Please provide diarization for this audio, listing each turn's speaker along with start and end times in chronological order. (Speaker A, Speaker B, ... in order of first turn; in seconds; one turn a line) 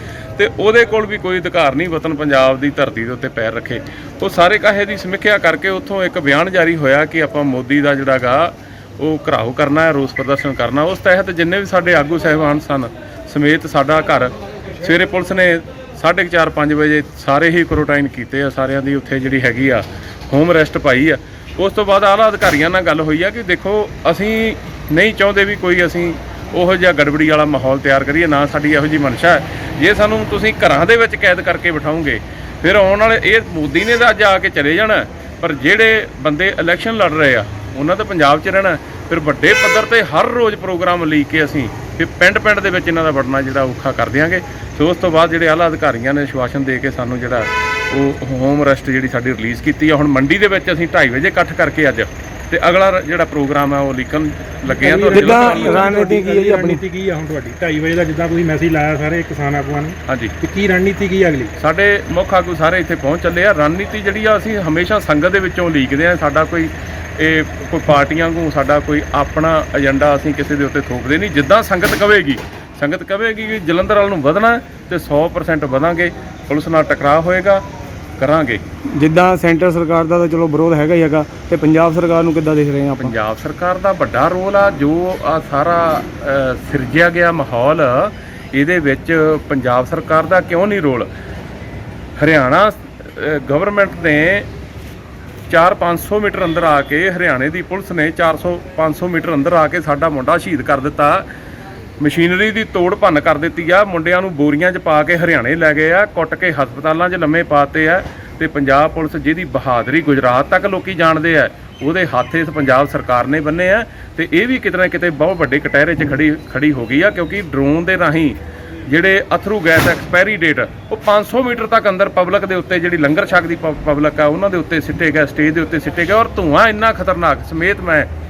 Speaker A: 0.4-55.8
Speaker B: 54.6-61.5
Speaker C: 55.1-56.8
Speaker A: 60.1-60.3
Speaker A: 61.6-77.6
Speaker A: 78.2-78.6
Speaker C: 79.0-83.2
Speaker A: 83.0-91.1
Speaker A: 92.2-94.5
Speaker A: 95.5-101.3
Speaker A: 102.0-128.1